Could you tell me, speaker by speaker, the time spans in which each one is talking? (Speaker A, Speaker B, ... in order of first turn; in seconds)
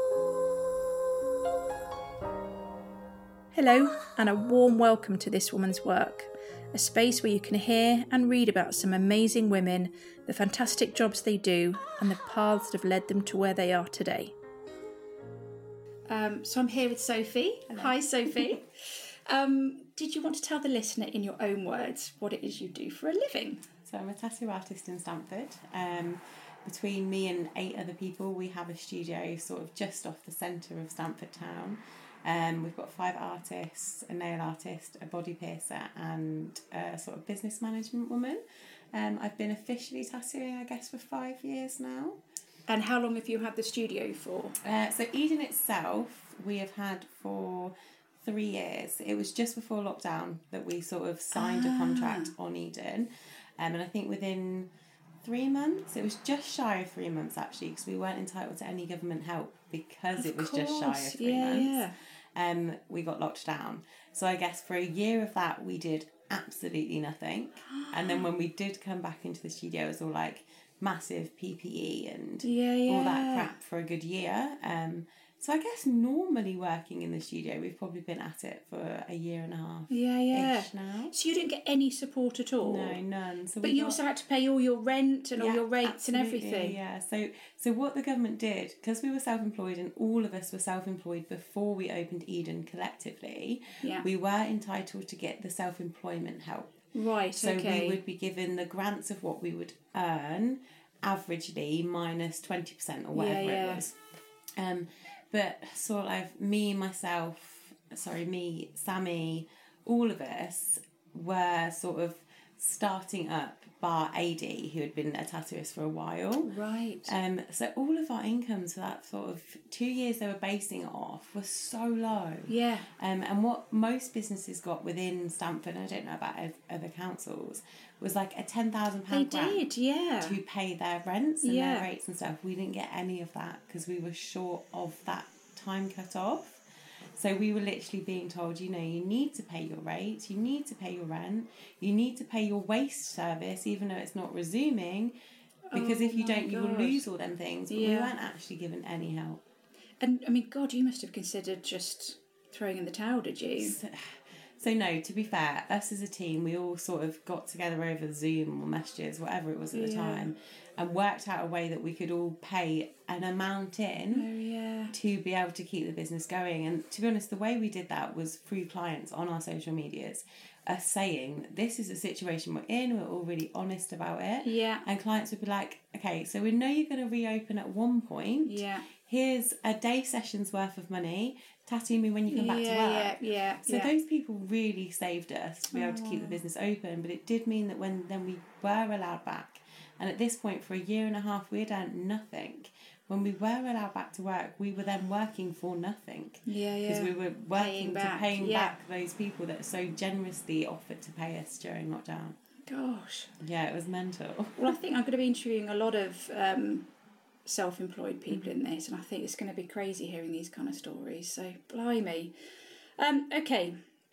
Speaker A: 3.5-14.3, 16.1-23.7, 42.7-44.6, 51.3-52.3, 60.2-62.0, 67.7-68.3, 72.4-73.5, 79.9-83.0, 83.6-86.8, 93.8-94.1, 97.0-98.0, 103.1-103.9, 116.5-117.1, 122.5-122.9, 129.1-130.4, 131.4-131.9, 145.7-147.1, 147.7-148.2, 150.0-153.8, 159.7-160.3, 164.1-164.9, 174.4-174.8, 178.4-178.9, 182.3-183.9, 185.7-186.4, 196.5-198.7, 202.7-203.3, 204.6-206.9, 207.4-212.3, 213.0-213.8
Speaker B: 17.7-18.6, 23.9-38.4, 38.9-42.2, 44.6-54.7, 55.2-81.1, 82.6-84.0, 85.4-96.8, 97.3-104.0, 104.6-129.7, 130.2-136.6, 137.1-145.1, 145.7-149.4, 153.6-164.3, 164.9-202.4, 203.4-204.8, 208.3-208.6